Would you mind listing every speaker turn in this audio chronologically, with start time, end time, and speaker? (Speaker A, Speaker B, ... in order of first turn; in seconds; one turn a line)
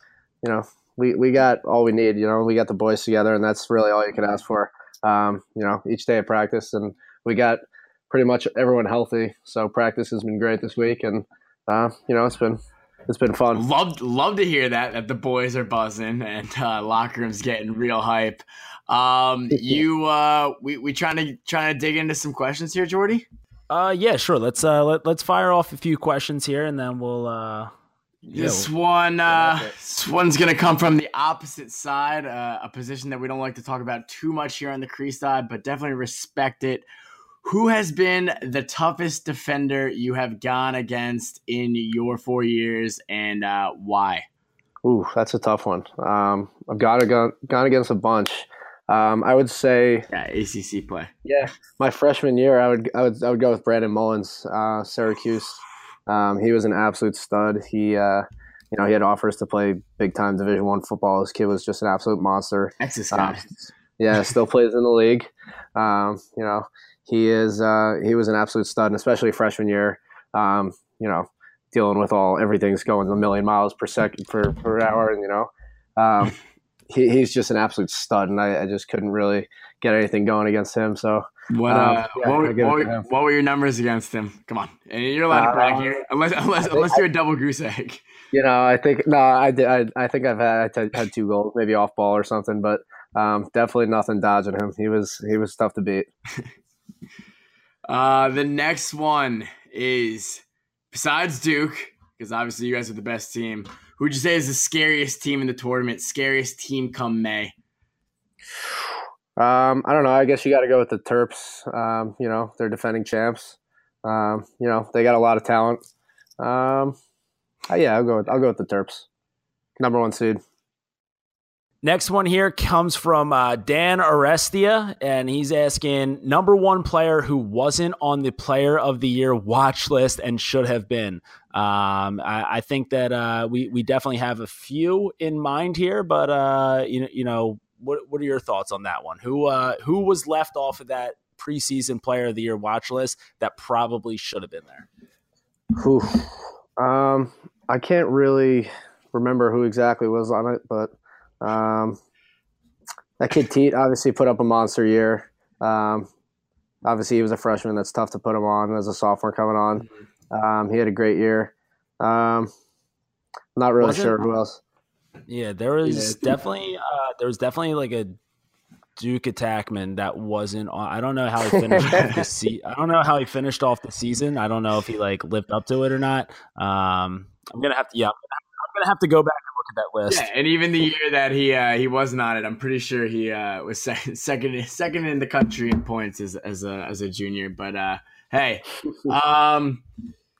Speaker A: 0.4-13.6
Speaker B: 13.5-23.3
Speaker A: 19.5-19.8
Speaker C: 23.7-27.7
Speaker B: 28.2-36.9
Speaker C: 28.3-28.7
Speaker B: 37.4-44.3
Speaker A: 44.8-50.1
Speaker B: 50.1-51.1
Speaker A: 51.2-63.4
Speaker B: 62.8-63.5
Speaker A: 64.0-76.4
Speaker A: 76.9-83.0
Speaker B: 81.5-88.0
Speaker A: 85.3-86.0
Speaker A: 86.6-87.0
Speaker A: 88.3-96.1
Speaker B: 97.9-107.5
Speaker A: 109.4-115.8
Speaker A: 116.4-117.0
Speaker A: 117.7-119.1
Speaker A: 119.8-120.4
Speaker C: 121.8-144.9
Speaker A: 145.8-152.0
Speaker A: 153.2-156.1
Speaker A: 156.8-162.5
Speaker A: 163.6-164.6
Speaker C: 163.8-164.2
Speaker C: 165.3-168.2
Speaker A: 165.9-166.3
Speaker C: 169.0-180.3
Speaker A: 171.6-172.2
Speaker B: 171.9-172.2
Speaker B: 180.1-189.8